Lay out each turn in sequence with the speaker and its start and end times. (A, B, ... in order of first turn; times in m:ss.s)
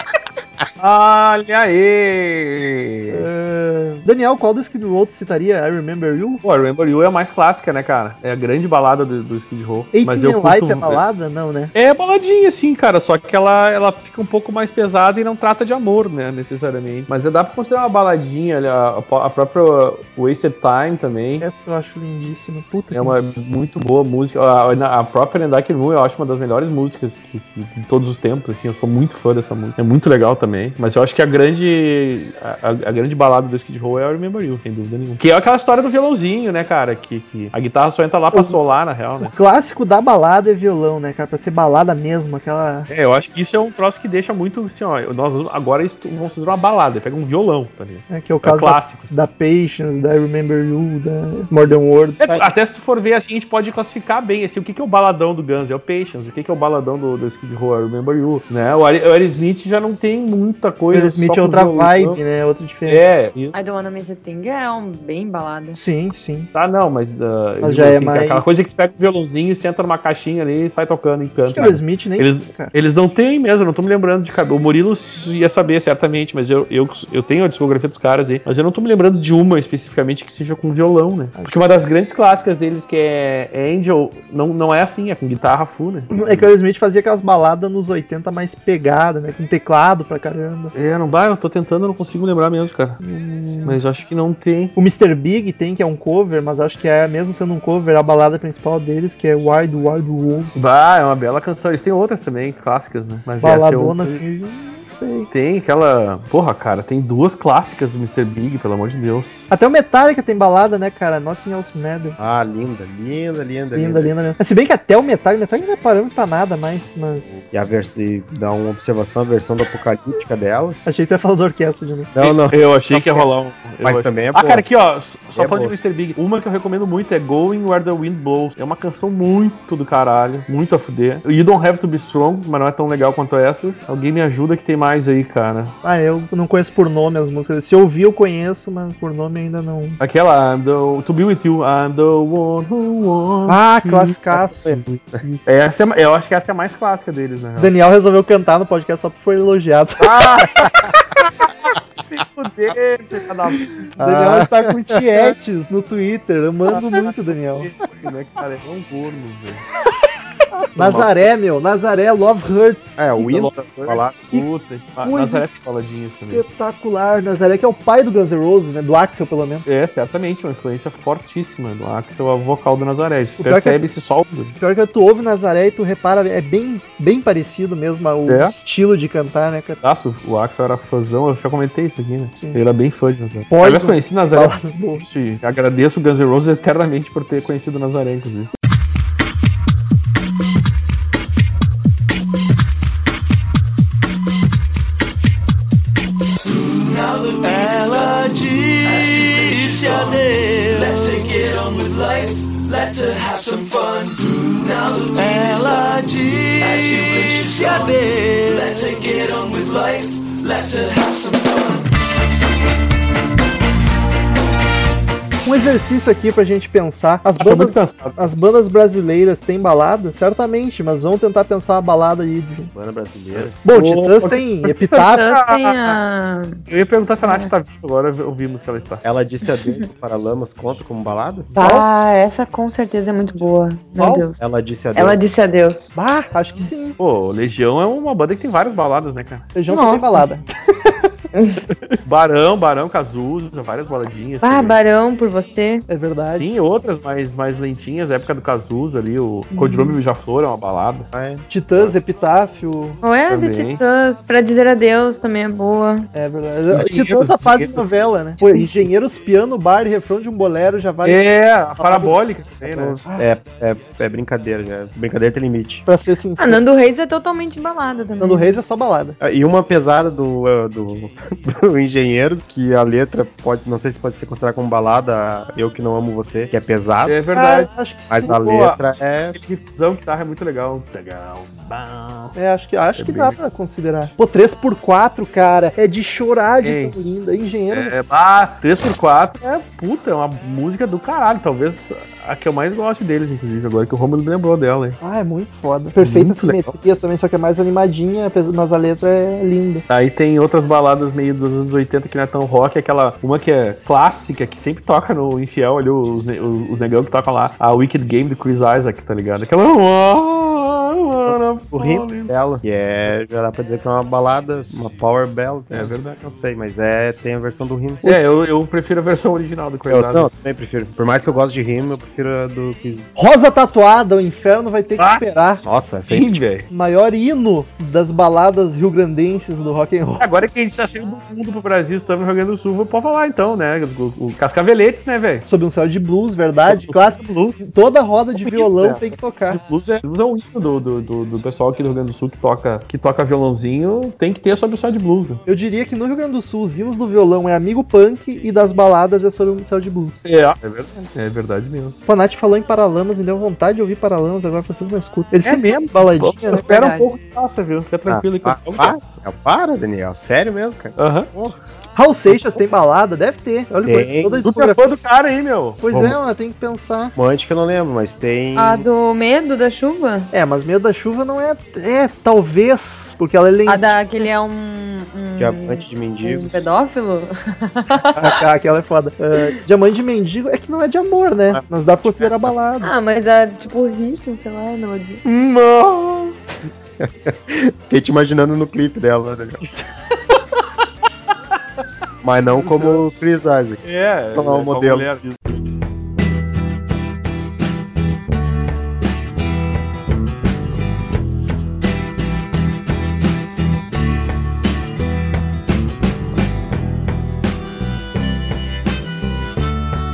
0:00.8-0:03.3 A
0:03.1-0:06.4 B
0:06.4-0:11.0 A
0:09.9-0:11.7 B
0:11.8-0:21.4 A
0:21.4-0:23.1 B
0:22.9-0:39.3 A
0:38.3-0:38.6 B
0:39.2-0:42.9 B
0:42.9-0:49.1 A
0:48.1-0:52.3 B
0:52.2-1:02.2 A
0:52.2-0:52.5 C
1:00.9-1:03.0 B
1:02.9-1:03.6 A
1:03.5-1:05.8 D
1:05.7-1:06.5 B
1:06.5-1:26.4 A
1:07.6-1:08.4 B
1:11.5-1:12.7 B
1:26.1-1:30.7 B
1:30.7-1:33.0 A
1:33.0-1:33.8 B
1:33.6-1:34.7 A
1:34.8-1:40.5 B
1:40.5-1:44.2 A
1:43.4-1:45.3 B
1:45.3-1:49.5 A
1:49.5-1:52.2 B
1:52.2-1:54.1 C
1:53.7-1:57.4 B
1:57.4-2:00.8 C
2:00.8-2:02.1 B
2:02.1-2:03.3 C
2:02.2-2:15.8 A
2:03.8-2:04.6 C
2:05.4-2:05.7 C
2:15.8-2:20.0 B
2:20.0-2:27.7 A
2:23.5-2:25.4 B
2:24.3-2:25.2 C
2:27.6-2:30.2 B
2:30.0-2:33.8 A
2:34.0-2:35.3 C
2:34.0-2:37.7 B
2:36.7-2:39.6 A
2:40.6-2:43.0 B
2:40.8-2:41.1 C
2:43.0-2:44.4 C
2:43.2-2:46.4 A
2:45.0-2:45.5 B
2:46.3-2:49.6 B
2:49.6-2:54.6 A
2:53.4-2:53.8 B
2:54.6-2:59.8 B
2:58.3-2:58.5 A
2:59.8-3:08.5 A
3:03.5-3:05.0 B
3:16.9-3:31.7 E
3:35.4-3:42.7 B
3:37.4-3:38.2 A
3:42.7-3:43.6 C
3:43.4-3:46.0 A
3:43.6-3:45.3 B
3:45.0-3:46.6 D
3:46.7-3:49.0 A
3:47.2-3:47.5 D
3:49.0-3:51.5 C
3:51.6-3:54.4 D
3:51.6-3:51.9 B
3:54.0-3:54.2 B
3:54.4-3:55.2 C
3:54.9-3:55.9 D
3:55.9-3:57.0 B
3:57.0-3:59.5 A
3:59.6-4:00.5 B
3:59.7-4:00.3 D
4:01.3-4:01.6 D
4:01.9-4:04.8 A
4:04.4-4:05.8 D
4:05.9-4:06.5 B
4:06.2-4:11.1 A
4:09.5-4:09.9 D
4:11.1-4:12.0 C
4:11.5-4:13.0 B
4:13.0-4:16.1 D
4:13.3-4:13.8 A
4:16.1-4:21.3 B
4:16.7-4:17.8 A
4:18.4-4:18.9 A
4:21.0-4:23.0 A
4:21.8-4:23.2 B
4:23.1-4:25.8 C
4:25.9-4:26.6 B
4:26.4-4:28.6 D
4:28.2-4:29.2 B
4:29.2-4:37.2 C
4:37.0-4:37.7 A
4:37.3-4:38.4 B
4:38.1-4:39.4 C
4:38.2-4:38.8 A
4:39.3-4:42.4 A
4:42.4-4:47.9 B
4:43.0-4:43.4 A
4:46.6-4:47.0 A
4:47.7-4:55.0 A
4:55.0-4:59.8 B
4:56.0-4:56.7 A
4:59.9-5:12.3 A
5:11.2-5:18.0 C
5:15.7-5:16.2 A
5:18.0-5:20.3 A
5:19.9-5:23.1 C
5:23.2-5:25.6 B
5:25.0-5:25.2 A
5:25.6-5:26.4 C
5:26.1-5:26.7 A
5:26.7-5:30.3 B
5:30.2-5:35.4 A
5:35.5-5:39.6 B
5:36.6-5:37.6 A
5:38.4-5:45.4 A
5:45.5-5:50.2 B
5:50.2-5:52.0 A
5:52.1-5:56.7 B
5:55.4-5:59.2 A
5:56.6-5:57.1 D
5:58.1-6:01.6 C
6:01.0-6:01.3 A
6:02.0-6:04.8 B
6:03.8-6:04.4 C
6:04.4-6:05.8 A
6:05.8-6:07.1 B
6:05.9-6:06.2 C
6:07.2-6:08.9 C
6:08.6-6:10.3 D
6:10.3-6:13.8 B
6:13.6-6:18.2 D
6:15.4-6:16.5 C
6:18.2-6:22.9 B
6:21.5-6:22.5 C
6:22.8-6:25.2 D
6:25.2-6:26.4 A
6:27.0-6:29.6 C
6:32.2-6:35.1 C
6:32.5-6:33.0 A
6:33.8-6:35.4 A